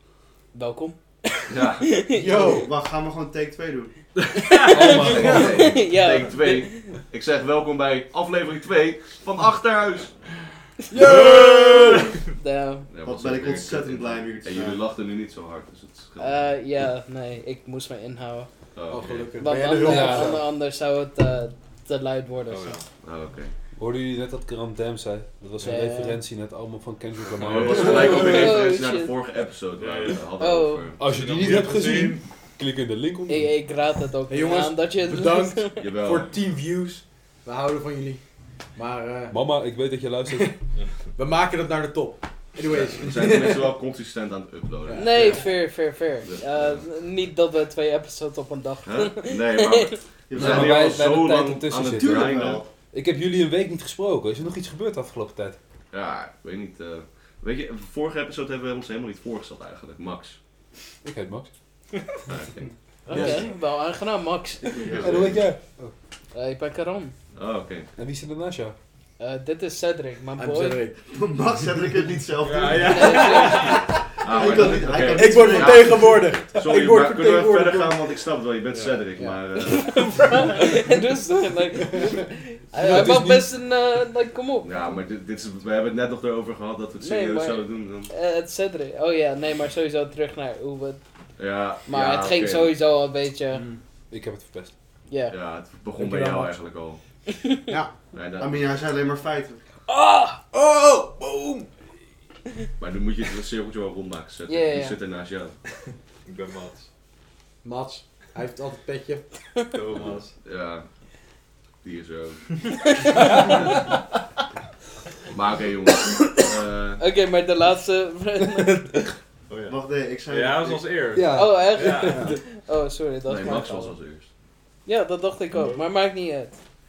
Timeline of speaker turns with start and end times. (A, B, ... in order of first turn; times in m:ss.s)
0:00.5-0:02.2 A
0:01.5-0:02.0 B
0:02.1-0:02.7 C
0:02.3-0:04.0 D
0:04.4-0:06.9 A
0:04.7-0:05.8 E
0:04.9-0:10.2 B
0:05.1-0:05.6 C
0:10.9-0:12.2 C
0:10.9-0:12.0 B
0:12.3-0:12.9 A
0:12.9-0:16.5 B
0:13.1-0:14.8 D
0:16.2-0:18.5 A
0:18.8-0:19.3 B
0:18.9-0:20.5 C
0:19.4-0:22.8 A
0:19.8-0:20.4 E
0:22.5-0:22.9 F
0:23.0-0:23.5 B
0:23.8-0:28.5 E
0:25.6-0:26.2 A
0:27.4-0:28.2 F
0:27.4-0:31.0 B
0:27.8-0:29.2 A
0:29.8-0:30.3 F
0:30.4-0:30.9 A
0:31.0-0:33.6 E
0:31.0-0:32.2 F
0:33.3-0:35.8 A
0:34.3-0:38.2 C
0:35.8-0:36.3 B
0:38.8-0:39.4 C
0:39.3-0:40.5 E
0:41.2-0:43.7 C
0:42.7-0:45.6 B
0:44.8-0:45.4 C
0:45.0-0:50.0 A
0:46.2-0:46.9 B
0:48.8-0:52.7 B
0:50.3-0:50.9 D
0:50.3-0:55.6 E
0:52.0-0:52.6 C
0:55.9-1:00.4 B
1:01.0-1:01.5 E
1:02.3-1:02.7 B
1:03.1-1:03.5 C
1:03.1-1:04.7 A
1:04.7-1:05.4 D
1:04.7-1:05.4 B
1:05.0-1:05.9 E
1:06.3-1:07.2 A
1:07.4-1:07.9 B
1:08.0-1:08.8 E
1:09.2-1:10.8 A
1:10.4-1:11.0 C
1:11.1-1:16.2 D
1:12.4-1:13.6 F
1:12.8-1:18.2 C
1:12.9-1:13.8 A
1:14.2-1:20.3 B
1:18.7-1:19.1 F
1:19.2-1:19.4 C
1:19.6-1:24.8 A
1:22.7-1:23.5 E
1:24.6-1:28.1 B
1:27.0-1:31.0 A
1:31.4-1:32.7 B
1:31.9-1:33.6 A
1:33.5-1:33.8 C
1:34.1-1:34.7 E
1:35.1-1:35.4 A
1:35.3-1:37.0 B
1:36.0-1:36.6 C
1:37.7-1:38.0 C
1:38.1-1:38.5 B
1:38.4-1:39.6 D
1:40.0-1:40.4 A
1:40.5-1:41.7 C
1:42.8-1:45.6 B
1:44.5-1:45.0 A
1:46.3-1:46.9 F
1:47.6-1:49.3 C
1:49.6-1:50.4 F
1:50.4-1:50.9 B
1:51.8-1:53.6 B
1:53.3-1:53.6 E
1:55.3-1:57.0 B
1:57.0-1:59.0 A
1:59.5-2:02.3 F
1:59.7-2:01.0 D
2:01.1-2:02.4 E
2:01.3-2:03.9 A
2:02.1-2:02.4 C
2:03.3-2:04.3 B
2:03.5-2:03.8 C
2:04.9-2:06.6 A